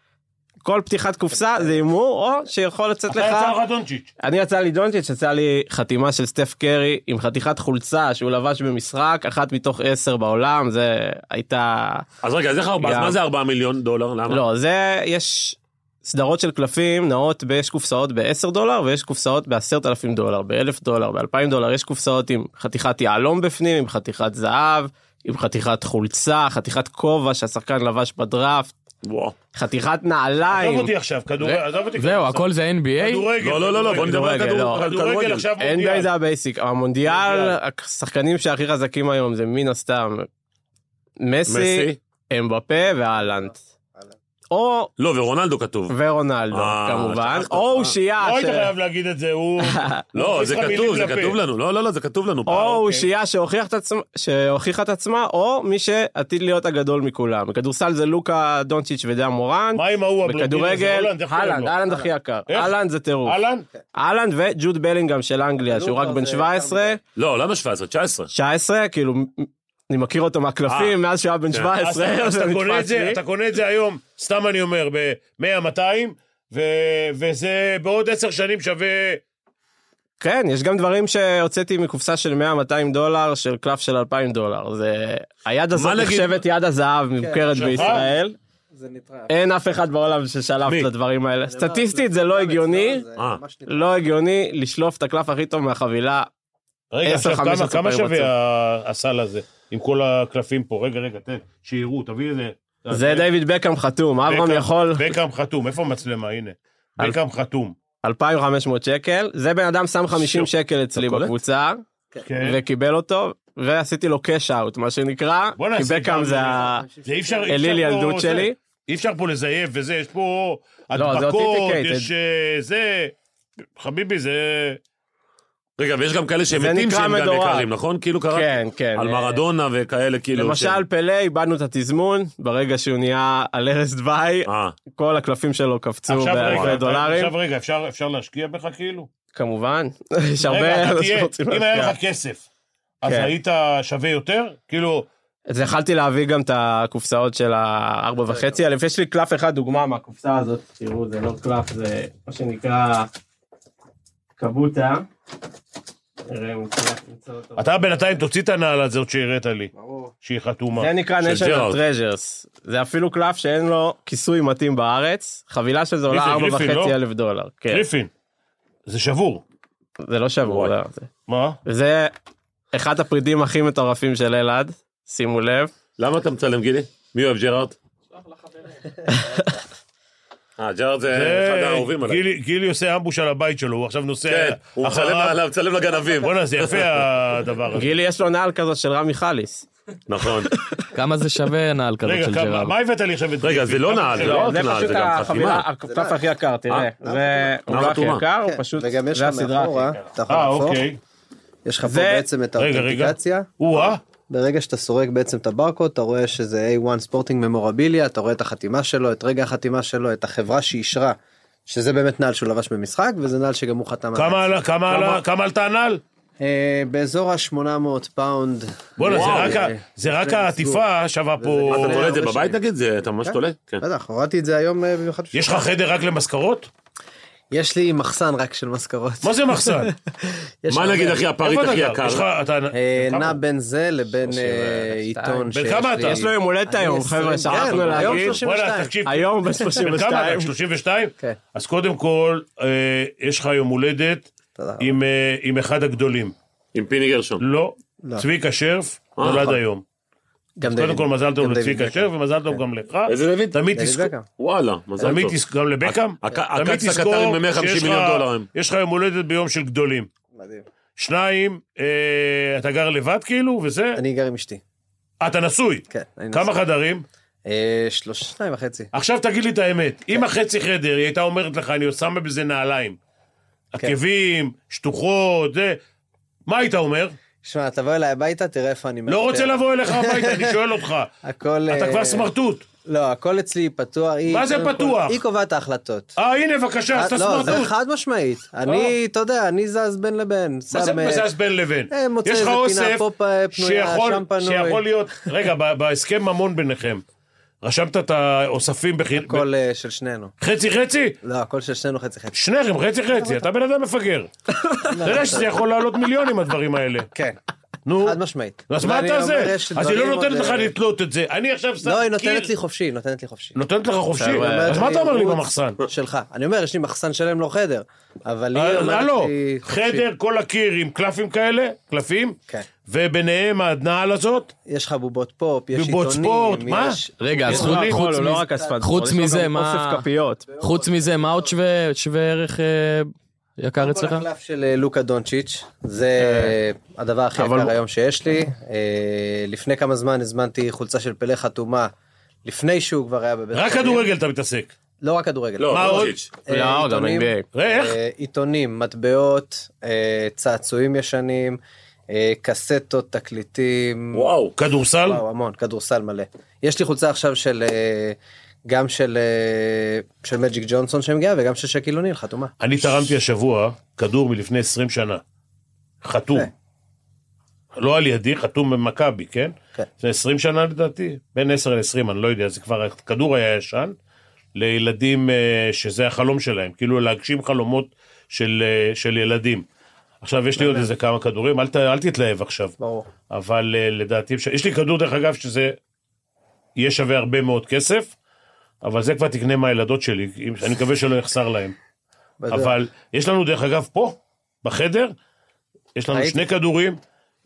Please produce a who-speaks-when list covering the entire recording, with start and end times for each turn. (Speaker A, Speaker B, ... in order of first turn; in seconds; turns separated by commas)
Speaker A: 0.6-3.6, Speaker B: 3.1-4.1, Speaker A: 4.2-12.1, Speaker C: 12.2-14.5, Speaker A: 12.8-13.2, Speaker A: 14.3-28.7, Speaker C: 29.0-29.4, Speaker A: 29.5-30.9, Speaker B: 30.5-32.5, Speaker D: 31.4-33.3, Speaker B: 33.0-36.1, Speaker C: 33.4-35.5, Speaker A: 33.9-34.8, Speaker A: 35.6-40.3, Speaker B: 37.0-37.6, Speaker A: 41.2-43.6, Speaker C: 41.5-42.0, Speaker A: 44.5-44.9, Speaker C: 45.0-46.0, Speaker A: 45.9-48.7, Speaker C: 46.5-48.0, Speaker B: 48.2-51.4, Speaker A: 49.6-50.1, Speaker C: 50.1-52.8, Speaker A: 52.5-63.4, Speaker B: 52.6-53.0, Speaker B: 59.7-61.8, Speaker B: 62.5-63.7, Speaker A: 63.9-67.0, Speaker E: 65.6-67.0, Speaker C: 67.2-68.3, Speaker A: 68.3-73.2, Speaker C: 70.7-71.0, Speaker B: 71.8-79.2, Speaker A: 80.2-88.4, Speaker C: 85.7-86.4, Speaker E: 87.2-88.1, Speaker B: 87.6-88.1, Speaker E: 88.7-89.3, Speaker A: 89.3-93.0, Speaker C: 90.7-90.9, Speaker E: 91.5-94.0, Speaker A: 93.7-96.3, Speaker B: 96.9-103.3, Speaker A: 97.0-98.3, Speaker A: 102.9-105.2, Speaker B: 104.3-107.8, Speaker A: 108.0-111.8, Speaker B: 110.1-110.5, Speaker B: 112.2-112.6, Speaker A: 112.4-116.9, Speaker B: 115.6-123.1, Speaker E: 116.5-117.7, Speaker A: 117.5-118.6, Speaker A: 120.9-122.1, Speaker B: 123.8-124.8, Speaker C: 125.8-130.8, Speaker A: 126.5-127.7, Speaker A: 128.3-129.4, Speaker A: 130.3-137.3, Speaker C: 134.5-134.8, Speaker B: 136.1-139.1, Speaker C: 136.4-136.8, Speaker A: 139.3-142.0, Speaker B: 140.4-142.4, Speaker B: 143.0-145.1, Speaker A: 143.0-143.3, Speaker A: 145.5-153.1, Speaker E: 148.3-148.6, Speaker A: 154.4-155.1, Speaker A: 156.3-157.7, Speaker B: 157.6-159.7, Speaker E: 159.7-160.1, Speaker B: 160.2-160.9, Speaker A: 160.8-167.9, Speaker C: 161.2-161.8, Speaker B: 166.1-167.0, Speaker B: 167.7-168.1, Speaker B: 168.9-169.4, Speaker A: 170.0-171.1, Speaker C: 170.4-170.8, Speaker B: 171.3-171.6, Speaker A: 171.7-172.1, Speaker A: 172.7-175.7, Speaker C: 176.0-177.8, Speaker A: 179.1-179.5, Speaker C: 180.6-182.2, Speaker B: 181.1-185.4, Speaker C: 184.3-187.0, Speaker B: 186.2-187.9, Speaker A: 187.7-189.7, Speaker C: 190.1-190.5, Speaker A: 190.4-190.8, Speaker D: 190.9-192.7, Speaker B: 192.1-194.8, Speaker C: 193.4-195.7, Speaker A: 194.2-200.0, Speaker E: 195.9-196.2, Speaker E: 197.0-200.9, Speaker C: 197.7-198.2, Speaker B: 200.3-201.0, Speaker E: 201.7-215.1, Speaker A: 201.8-202.3, Speaker B: 202.6-204.0, Speaker B: 214.2-216.0, Speaker E: 216.4-220.8, Speaker B: 219.0-222.2, Speaker C: 219.1-219.6, Speaker E: 221.4-222.6, Speaker C: 221.7-223.8, Speaker E: 223.2-225.7, Speaker B: 225.3-226.7, Speaker E: 227.5-231.2, Speaker B: 229.2-229.9, Speaker C: 230.7-232.3, Speaker B: 231.3-233.4, Speaker E: 232.7-239.0, Speaker A: 234.5-238.4, Speaker B: 235.5-236.2, Speaker C: 237.5-238.3, Speaker B: 237.6-246.3, Speaker A: 239.0-240.5, Speaker E: 239.6-239.8, Speaker E: 244.6-245.0, Speaker C: 246.7-247.4, Speaker B: 247.4-249.8, Speaker C: 249.2-249.6, Speaker E: 250.6-252.6, Speaker B: 250.7-254.1, Speaker C: 253.1-253.6, Speaker E: 253.7-254.3, Speaker C: 254.4-258.5, Speaker E: 255.0-255.2, Speaker B: 255.0-260.1, Speaker E: 260.3-260.7, Speaker B: 261.0-264.0, Speaker E: 264.0-264.6, Speaker B: 265.2-267.1, Speaker E: 265.9-266.6, Speaker E: 267.5-268.9, Speaker B: 268.9-273.0, Speaker B: 273.7-275.8, Speaker B: 276.5-277.2, Speaker E: 277.4-280.6, Speaker B: 279.1-281.1, Speaker E: 281.2-282.3, Speaker B: 281.7-282.6, Speaker E: 282.9-286.2, Speaker B: 284.3-285.2, Speaker B: 286.2-287.7, Speaker E: 286.9-291.3, Speaker B: 288.7-288.9, Speaker B: 290.7-297.0, Speaker E: 291.9-294.9, Speaker B: 297.6-299.5, Speaker E: 299.1-300.3, Speaker B: 300.4-301.2, Speaker E: 301.2-302.4, Speaker B: 302.3-304.3, Speaker E: 303.1-303.4, Speaker E: 304.9-305.6, Speaker B: 305.0-307.1, Speaker B: 307.9-312.5, Speaker E: 308.0-310.7, Speaker E: 311.8-313.6, Speaker B: 313.6-315.8, Speaker A: 314.1-314.9, Speaker E: 314.2-320.1, Speaker B: 318.5-324.5, Speaker E: 324.7-328.9, Speaker B: 325.7-328.0, Speaker D: 327.2-330.1, Speaker A: 327.5-330.4, Speaker E: 330.5-331.6, Speaker D: 330.6-334.3, Speaker E: 333.8-341.9, Speaker A: 336.2-336.5, Speaker A: 337.4-337.7, Speaker E: 342.4-344.1, Speaker B: 343.5-344.7, Speaker E: 345.0-351.6, Speaker C: 345.6-346.3, Speaker B: 345.7-346.2, Speaker A: 346.5-347.5, Speaker B: 347.5-347.9, Speaker E: 352.1-354.3, Speaker C: 354.1-354.5, Speaker B: 354.6-355.2, Speaker E: 355.0-362.5, Speaker B: 362.6-365.2, Speaker B: 366.0-366.5, Speaker B: 367.7-374.0, Speaker B: 374.6-379.6, Speaker B: 380.2-382.8, Speaker E: 380.6-380.9, Speaker E: 382.8-383.1, Speaker B: 383.3-385.8, Speaker B: 386.8-388.1, Speaker B: 388.8-391.8, Speaker E: 392.4-392.8, Speaker B: 392.5-395.1, Speaker B: 396.0-397.0, Speaker E: 396.1-396.4